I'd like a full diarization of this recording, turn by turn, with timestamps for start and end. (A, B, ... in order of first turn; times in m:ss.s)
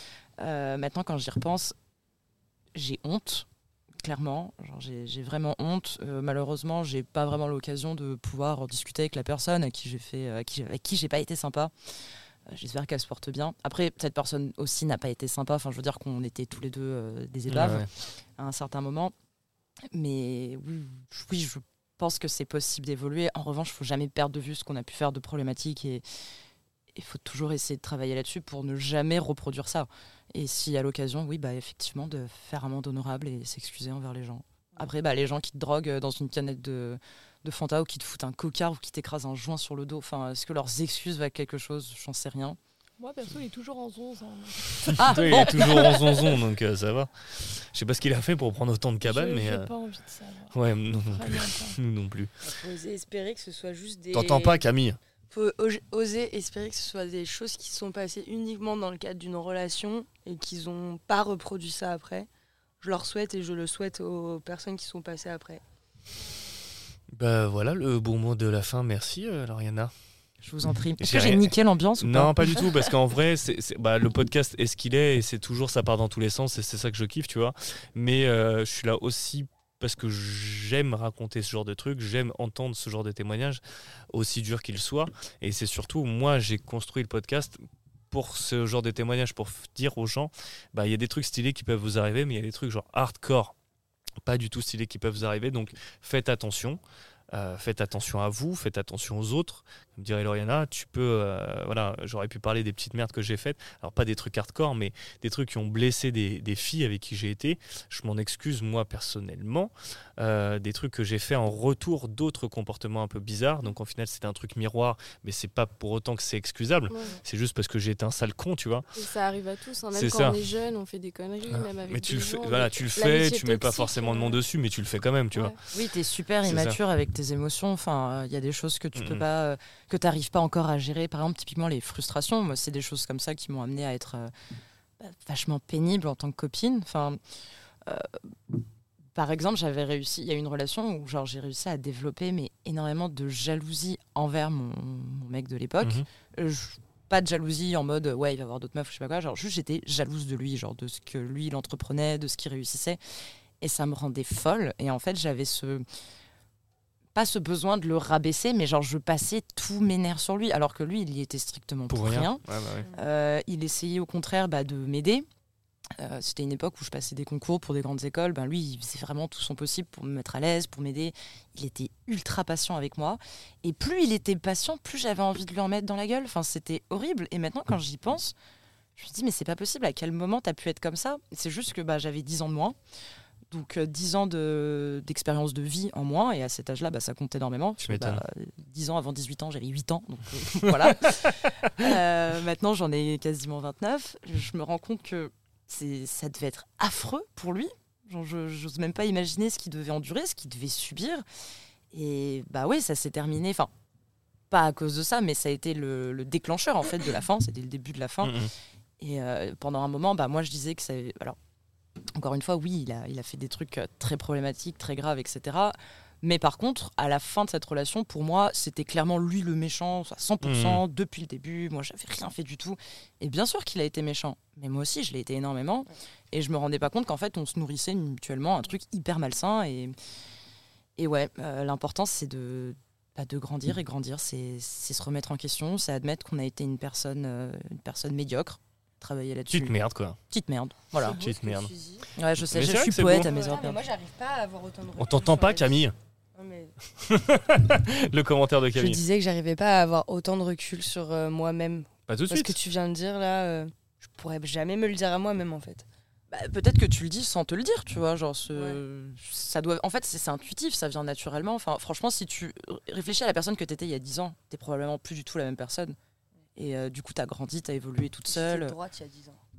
0:00.4-0:01.7 A
0:02.7-0:03.5 A
0:04.0-0:11.7 A
0:12.5-0:19.1 A
0:17.5-0:17.9 B
0:19.9-0:26.0 A
0:26.9-0:42.6 A
0:43.0-0:45.8 C
0:44.8-0:49.7 B
0:44.9-0:46.2 A
0:49.0-0:51.8 C
0:50.5-0:52.3 B
0:52.4-0:54.6 D
0:54.1-0:55.0 B
0:55.3-1:02.3 D
1:02.8-1:05.6 D
1:07.1-1:09.9 B
1:10.4-1:12.7 A
1:11.0-1:27.6 B
1:28.1-1:33.5 B
1:34.2-1:36.8 B
1:37.3-1:58.8 B
1:56.9-1:57.2 E
1:58.9-2:04.4 E
1:59.9-2:00.4 B
2:01.5-2:05.6 B
2:05.7-2:14.3 A
2:06.4-2:06.8 B
2:09.0-2:09.2 B
2:15.0-2:17.2 A
2:17.8-2:18.6 A
2:19.1-2:33.0 A
2:33.6-2:35.8 A
2:37.1-2:45.2 A
2:41.9-2:42.9 B
2:46.0-2:58.3 A
2:59.0-3:02.8 A
3:03.5-3:21.2 A
3:07.8-3:08.2 B
3:10.8-3:11.3 B
3:21.9-3:23.7 A
3:24.5-3:28.4 A
3:28.2-3:28.5 B
3:29.0-3:31.4 A
3:32.1-3:49.9 A
3:40.4-3:40.8 B
3:51.0-3:59.8 A
3:59.5-4:00.2 B
4:00.3-4:01.2 A
4:01.0-4:02.1 D
4:01.0-4:01.7 B
4:02.1-4:03.8 A
4:02.4-4:03.3 B
4:03.2-4:05.8 D
4:05.0-4:05.9 B
4:06.4-4:06.7 D
4:07.0-4:09.0 B
4:08.7-4:15.8 D
4:12.1-4:12.6 B
4:16.3-4:26.0 A
4:18.5-4:18.8 D
4:26.6-4:28.7 A
4:28.3-4:29.4 D